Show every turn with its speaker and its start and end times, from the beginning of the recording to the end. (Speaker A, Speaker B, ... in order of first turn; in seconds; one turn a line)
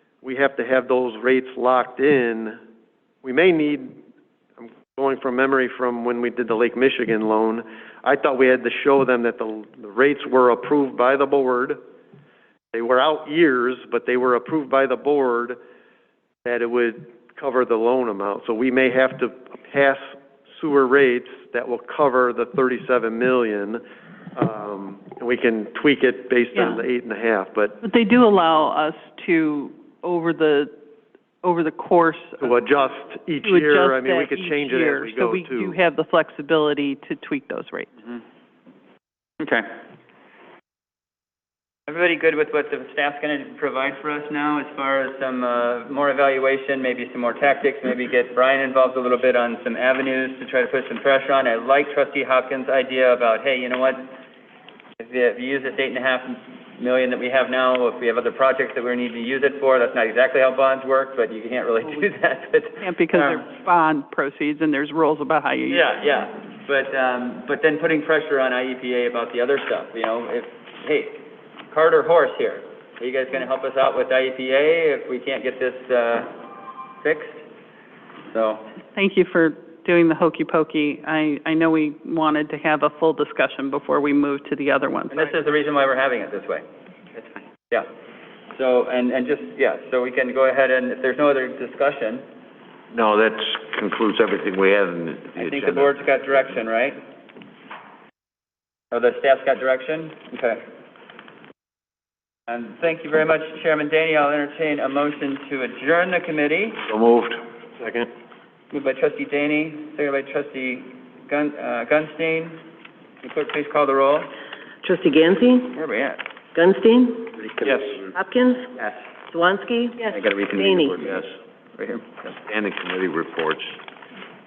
Speaker A: 0.2-2.6
Speaker A: 3.2-4.0
Speaker A: 4.6-11.8
Speaker A: 12.7-15.6
Speaker A: 16.4-23.8
Speaker A: 24.4-27.8
Speaker B: 26.6-26.8
Speaker B: 27.8-30.7
Speaker B: 31.4-32.6
Speaker A: 32.4-35.8
Speaker B: 33.4-37.9
Speaker C: 39.4-39.7
Speaker C: 41.9-54.1
Speaker C: 55.0-63.4
Speaker B: 62.8-65.9
Speaker C: 65.7-76.3
Speaker C: 77.0-77.4
Speaker C: 78.3-78.7
Speaker B: 78.9-85.4
Speaker C: 85.1-86.6
Speaker C: 88.5-92.2
Speaker D: 92.9-95.9
Speaker C: 95.4-97.0
Speaker C: 98.9-100.6
Speaker C: 102.5-106.8
Speaker D: 106.9-107.9
Speaker C: 108.7-112.6
Speaker C: 113.2-114.3
Speaker E: 114.8-115.8
Speaker C: 115.7-116.2
Speaker E: 116.5-117.5
Speaker D: 117.6-118.1
Speaker E: 118.1-118.7
Speaker E: 119.3-121.0
Speaker C: 120.1-122.3
Speaker D: 122.5-123.8